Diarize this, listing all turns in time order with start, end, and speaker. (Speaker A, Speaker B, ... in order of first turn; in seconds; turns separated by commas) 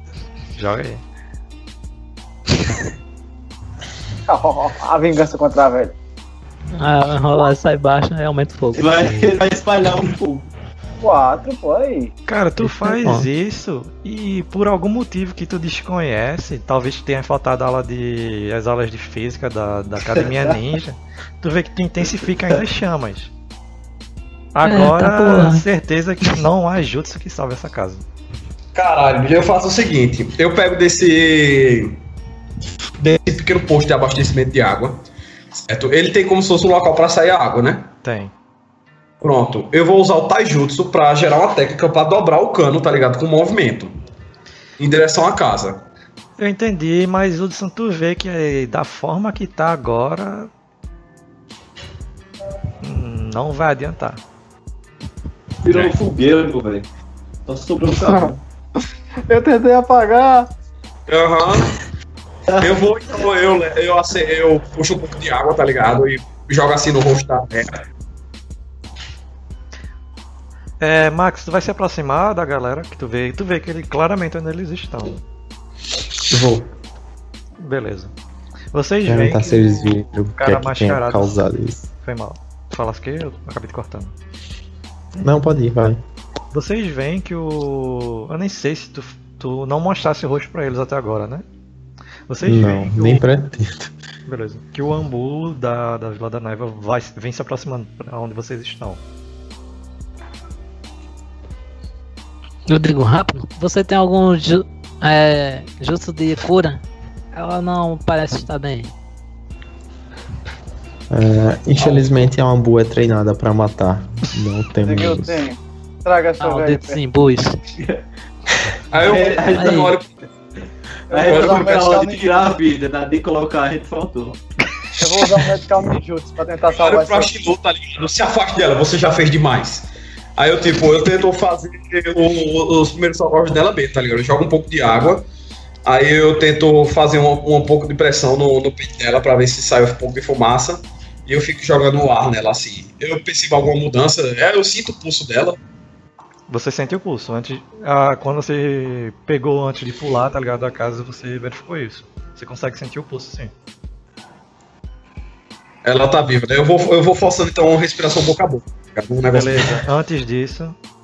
Speaker A: 0.6-1.0, Speaker B: 4.3-5.9, Speaker C: 6.7-9.2, Speaker D: 8.7-10.5, Speaker B: 11.0-12.1, Speaker A: 12.3-23.3, Speaker C: 12.6-13.2, Speaker D: 20.2-20.6, Speaker A: 24.5-28.0, Speaker C: 24.6-25.6, Speaker E: 28.7-32.0, Speaker E: 33.0-35.0, Speaker E: 35.5-37.9, Speaker A: 38.0-38.3, Speaker E: 39.2-43.9, Speaker E: 44.8-45.8, Speaker A: 46.4-50.5, Speaker A: 52.8-54.2, Speaker D: 55.6-56.9, Speaker D: 57.5-58.4, Speaker B: 58.0-58.3, Speaker B: 59.3-60.5, Speaker E: 61.1-61.7, Speaker D: 62.5-62.8, Speaker E: 62.6-67.8, Speaker A: 70.8-75.2, Speaker F: 76.3-76.7, Speaker A: 77.6-78.1, Speaker A: 78.7-81.4, Speaker F: 79.0-81.8, Speaker A: 82.0-84.1, Speaker F: 85.2-86.0, Speaker A: 86.5-91.4, Speaker A: 92.3-93.2, Speaker F: 92.4-93.9, Speaker A: 94.2-99.0, Speaker C: 102.7-106.8, Speaker C: 107.3-108.9, Speaker F: 111.1-115.4, Speaker B: 114.8-117.0, Speaker C: 116.4-117.6, Speaker E: 118.9-120.1, Speaker D: 119.0-119.9, Speaker C: 119.5-119.9, Speaker B: 121.1-122.2, Speaker D: 121.1-124.4, Speaker E: 121.3-121.6, Speaker B: 125.0-127.4, Speaker E: 126.7-135.2, Speaker E: 135.8-145.6, Speaker A: 146.5-153.5, Speaker E: 155.8-159.8, Speaker A: 159.3-160.8